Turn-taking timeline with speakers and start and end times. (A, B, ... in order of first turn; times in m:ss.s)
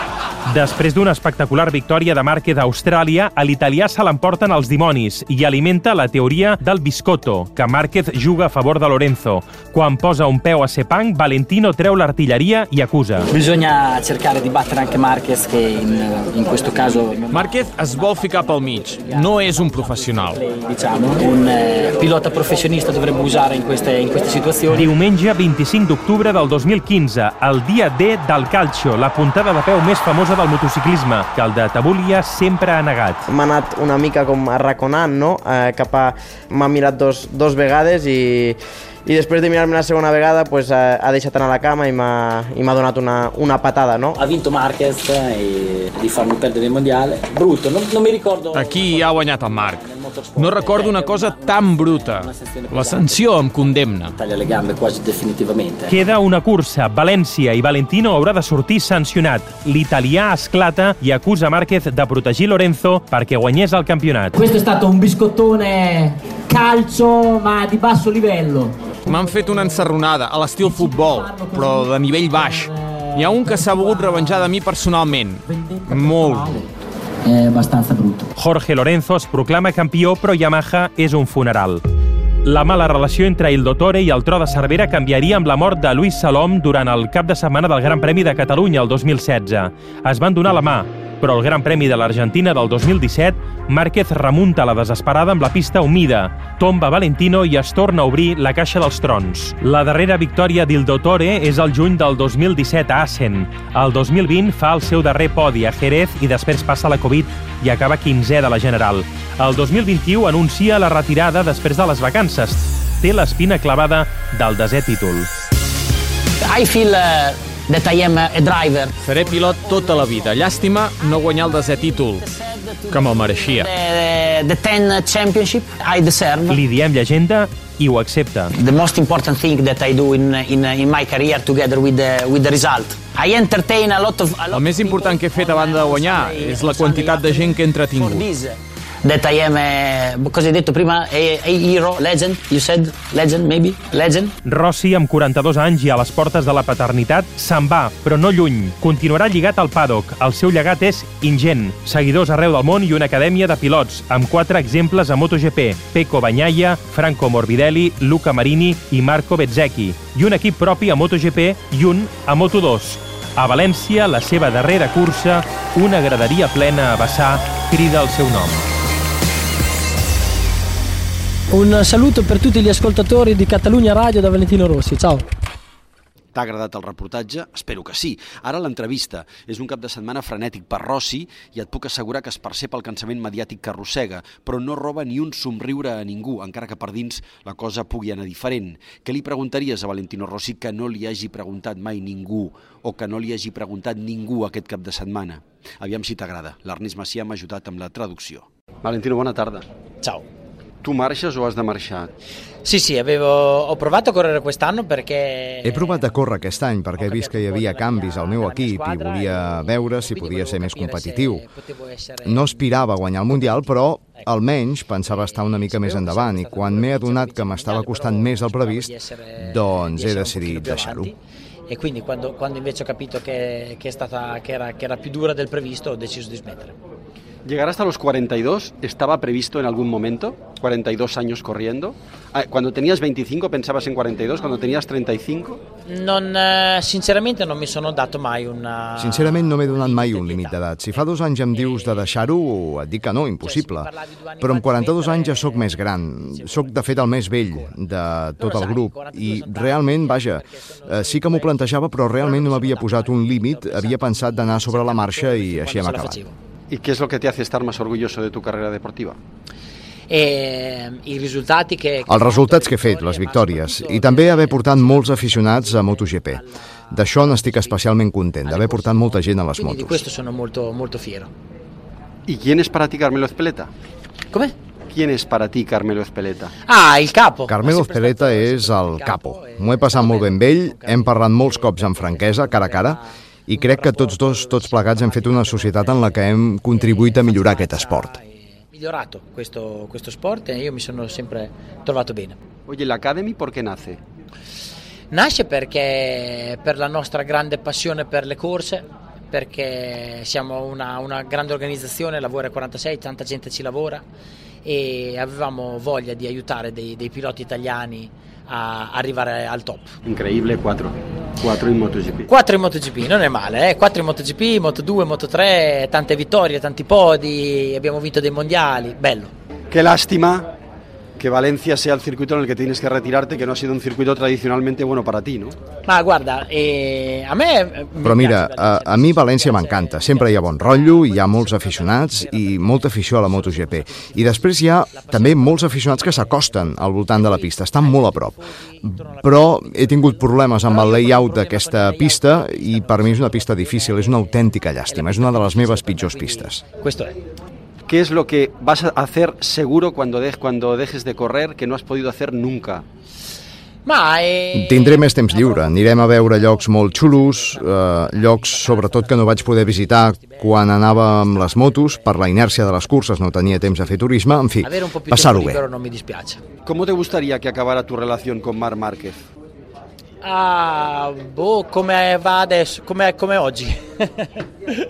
0:00.5-0:13.3 A
0:13.3-0:18.4 B
0:17.3-0:20.4 C
0:19.0-0:24.8 B
0:24.7-0:33.2 A
0:33.3-0:44.2 D
0:44.2-0:55.9 B
0:48.5-0:54.1 C
0:55.9-1:04.4 A
1:04.7-1:06.0 B
1:09.1-1:16.6 C
1:18.4-1:21.8 A
1:22.4-1:55.3 A
1:56.4-2:06.6 B
1:59.0-2:02.3 C
2:02.9-2:03.7 C
2:06.5-2:08.5 A
2:08.6-2:24.3 B
2:14.5-2:18.3 C
2:24.4-2:48.7 A
2:51.5-2:55.2 E
2:56.3-3:19.6 F
3:20.8-3:22.1 F
3:22.6-3:26.2 G
3:25.6-3:31.4 H
3:26.9-3:34.4 G
3:32.2-3:41.1 H
3:35.0-3:41.2 G
3:41.7-3:46.7 G
3:47.4-3:55.6 F
3:55.8-4:02.2 G
3:59.0-4:16.2 H
4:03.4-4:07.8 G
4:08.4-4:16.4 G
4:16.7-4:19.2 F
4:20.1-4:31.3 G
4:22.1-4:30.1 H
4:32.3-4:33.7 F
4:34.9-4:36.5 F
4:36.6-4:52.4 G
4:37.5-4:48.2 H
4:52.6-4:54.0 F
4:55.1-5:04.0 G
5:04.6-5:10.0 G
5:10.0-5:12.3 F
5:12.3-5:19.3 G
5:19.7-5:20.5 F
5:21.2-5:25.6 F
5:25.8-5:47.2 G
5:28.0-5:46.6 H
5:47.9-5:52.8 F
5:53.8-6:03.1 G
5:54.5-6:05.6 H
6:04.6-6:06.4 G
6:06.6-6:09.3 F
6:10.2-6:14.3 G